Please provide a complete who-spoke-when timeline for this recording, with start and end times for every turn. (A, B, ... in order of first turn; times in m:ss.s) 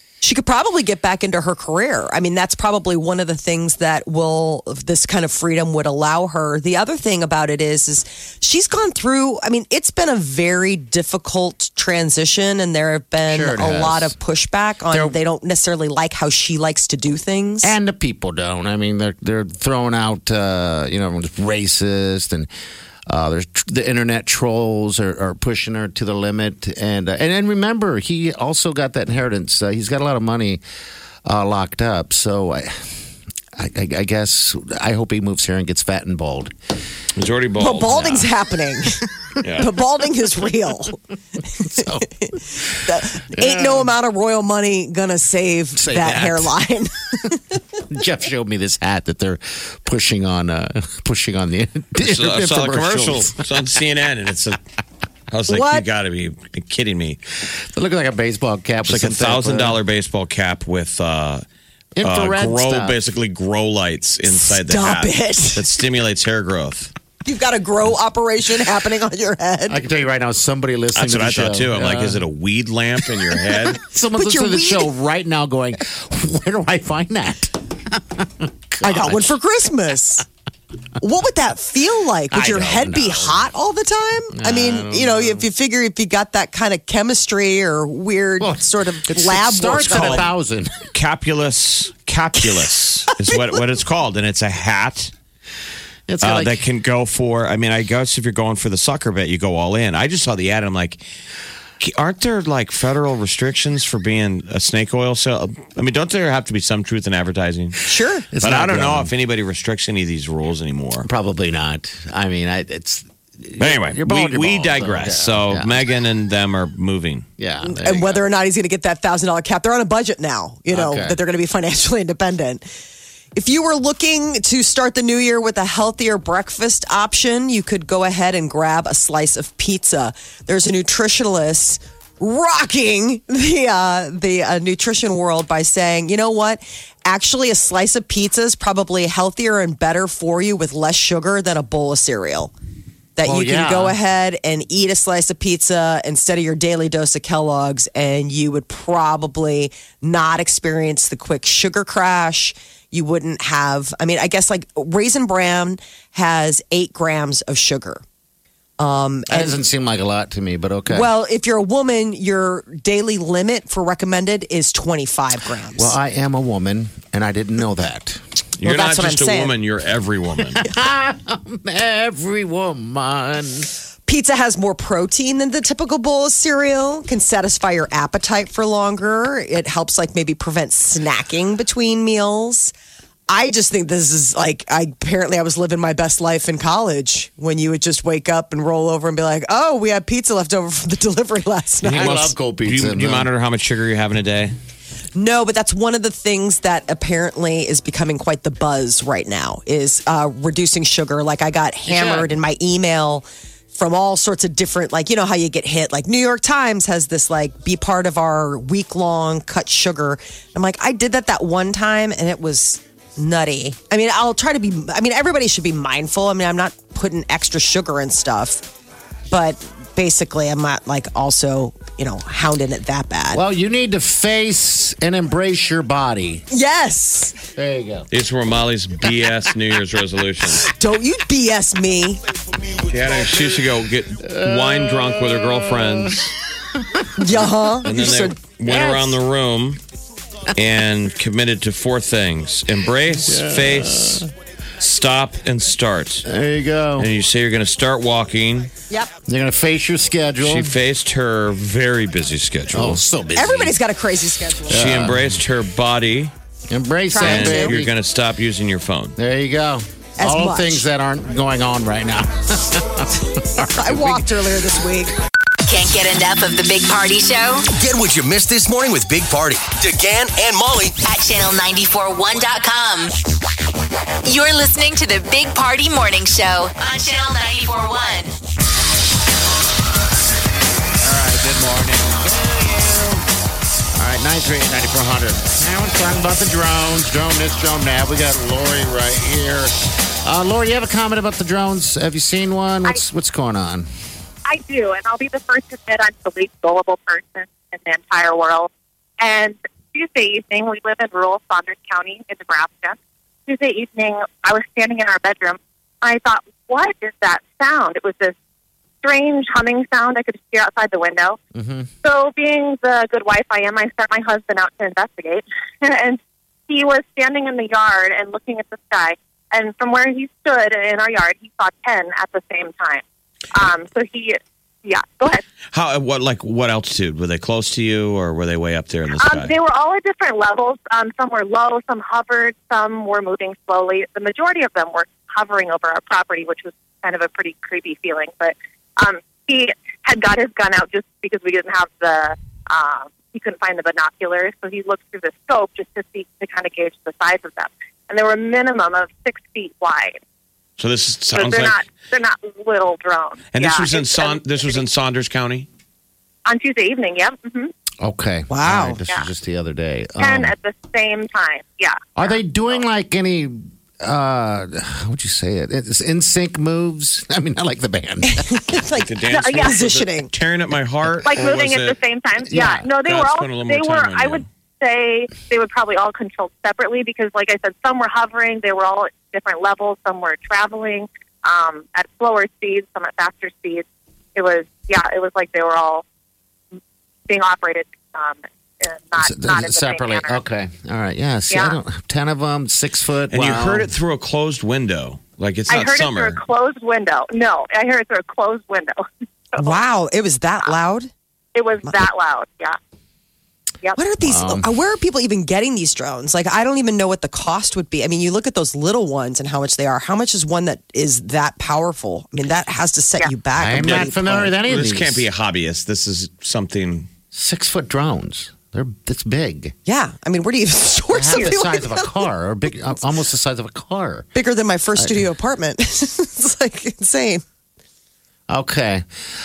0:00.2-0:17.7 A
0:13.3-0:14.1 B
0:14.9-0:15.2 B
0:17.6-0:22.5 B
0:23.1-0:30.6 B
0:31.2-0:33.0 B
0:33.5-0:36.5 B
0:37.1-0:38.3 C
0:37.6-0:39.0 A
0:39.4-0:39.7 C
0:39.6-0:41.0 A
0:41.6-0:43.9 B
0:42.7-0:47.6 A
0:45.8-0:46.5 B
0:47.9-0:53.6 B
0:52.0-0:54.6 C
0:55.3-0:57.2 C
0:55.5-0:55.8 A
0:57.5-0:59.8 B
0:58.8-1:01.4 C
1:02.0-1:03.0 B
1:02.0-1:06.9 C
1:04.3-1:05.6 A
1:07.2-1:09.8 A
1:09.7-1:12.2 B
1:11.0-1:13.8 C
1:13.4-1:19.3 B
1:14.1-1:14.9 A
1:18.8-1:20.2 A
1:21.0-1:30.3 A
1:22.3-1:23.5 B
1:24.3-1:25.5 B
1:28.4-1:30.9 B
1:29.9-1:30.3 C
1:30.9-1:35.1 C
1:36.1-1:36.6 B
1:36.2-1:41.0 C
1:41.8-1:47.8 C
1:47.8-1:48.3 A
1:48.3-1:49.1 B
1:48.4-1:51.1 C
1:51.0-1:55.8 B
1:53.6-1:57.2 C
1:57.4-1:58.2 B
1:57.6-2:02.6 A
2:00.7-2:01.2 B
2:03.3-2:22.5 A
2:23.2-2:38.0 A
2:23.2-2:24.0 B
2:38.8-2:39.6 A
2:39.3-2:41.1 B
2:40.9-2:46.0 A
2:45.7-2:48.2 B
2:48.6-2:50.6 C
2:48.6-2:49.5 A
2:50.5-2:53.7 B
2:54.1-3:02.7 A
3:03.3-3:12.3 A
3:11.8-3:13.3 B
3:11.8-3:14.5 C
3:15.1-3:38.7 A
3:21.8-3:22.3 B
3:39.3-3:43.4 A
3:43.3-3:46.4 B
3:46.5-3:47.4 A
3:47.5-3:48.1 B
3:48.1-3:50.7 C
3:50.6-3:52.2 A
3:52.9-3:56.4 C
3:54.2-3:56.2 B
3:57.2-3:58.3 A
3:57.8-3:59.2 B
3:57.8-3:59.8 C
4:00.5-4:04.2 C
4:03.1-4:04.3 B
4:04.8-4:06.2 C
4:06.2-4:07.1 B
4:07.0-4:08.7 C
4:09.2-4:10.8 B
4:10.4-4:13.0 C
4:12.7-4:13.8 B
4:13.3-4:14.8 A
4:14.7-4:15.4 B
4:14.7-4:16.3 C
4:16.7-4:17.9 B
4:17.1-4:17.8 A
4:17.2-4:19.2 C
4:19.2-4:24.4 B
4:20.2-4:20.8 A
4:23.7-4:25.1 A
4:25.6-4:27.6 D
4:27.7-4:31.0 E
4:31.0-4:33.1 D
4:34.2-4:38.3 D
4:41.0-4:43.2 B
4:44.0-4:53.9 B
4:54.4-5:08.3 F
5:09.0-5:11.4 F
5:11.5-5:11.9 B
5:12.0-5:25.4 F
5:25.7-5:29.5 C
5:29.2-5:50.2 F
5:50.8-5:51.8 C
5:51.3-5:54.8 F
5:53.5-5:55.7 C
5:56.4-5:57.7 F
5:58.0-6:00.5 B
5:58.5-5:59.0 A
6:00.2-6:02.3 F
6:02.2-6:08.7 B
6:08.2-6:10.3 A
6:09.0-6:12.0 C
6:11.2-6:26.0 F
6:12.4-6:12.8 B
6:13.0-6:14.4 C
6:27.3-6:30.4 F
6:29.2-6:33.9 B
6:31.5-6:31.8 F
6:33.3-6:36.4 C
6:35.7-6:39.8 F
6:39.6-6:41.1 A
6:41.5-6:42.8 F
6:43.9-6:54.5 A
6:44.2-6:44.7 B
6:53.6-6:55.2 B
6:53.8-6:57.1 C
6:57.3-6:59.7 B
6:59.8-7:02.1 A
7:01.1-7:04.3 B
7:04.3-7:07.4 A
7:05.0-7:05.2 B
7:08.5-7:09.0 B